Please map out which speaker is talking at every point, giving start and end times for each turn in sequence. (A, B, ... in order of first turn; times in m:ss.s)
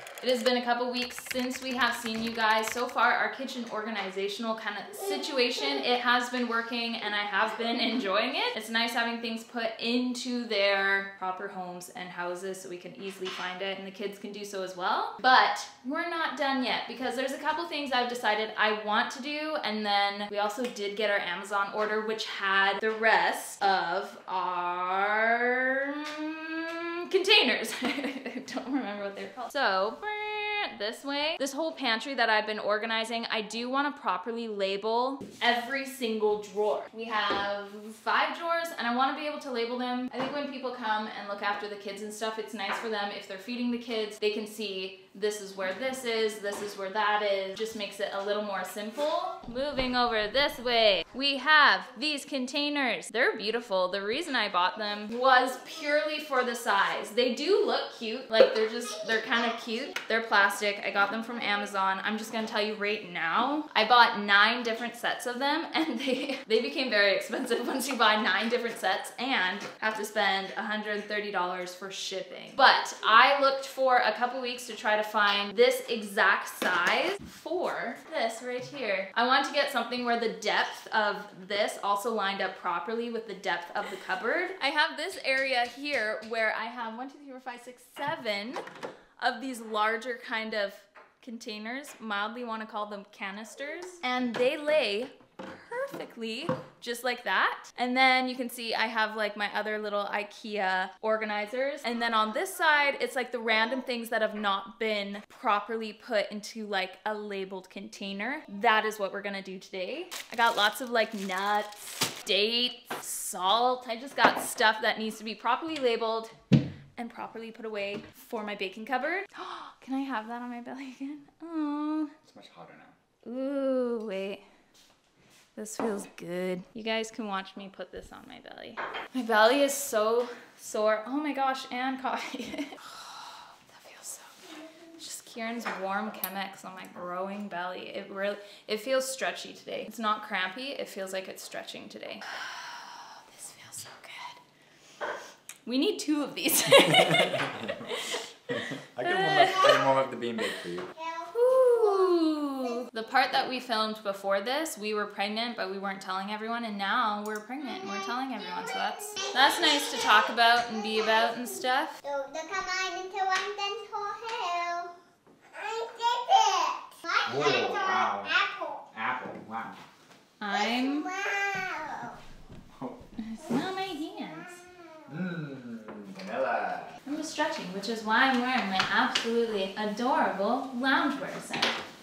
0:00.2-1:28.6 A
1:29.2-1:56.3 A
1:57.0-2:02.1 A
2:02.2-2:02.9 B
2:03.2-2:04.4 A
2:05.6-2:14.4 A
2:15.0-2:24.4 A
2:25.6-2:28.2 A
2:28.9-2:30.9 B
2:29.0-2:29.9 A
2:30.9-2:32.8 C
2:31.3-2:42.0 A
2:39.2-2:41.4 C
2:42.0-2:44.9 C
2:45.5-2:48.8 C
2:47.2-2:48.3 B
2:48.9-2:49.8 B
2:50.4-2:51.1 A
2:50.5-2:52.2 C
2:53.2-2:54.6 A
2:55.1-2:57.0 B
2:57.0-3:01.7 A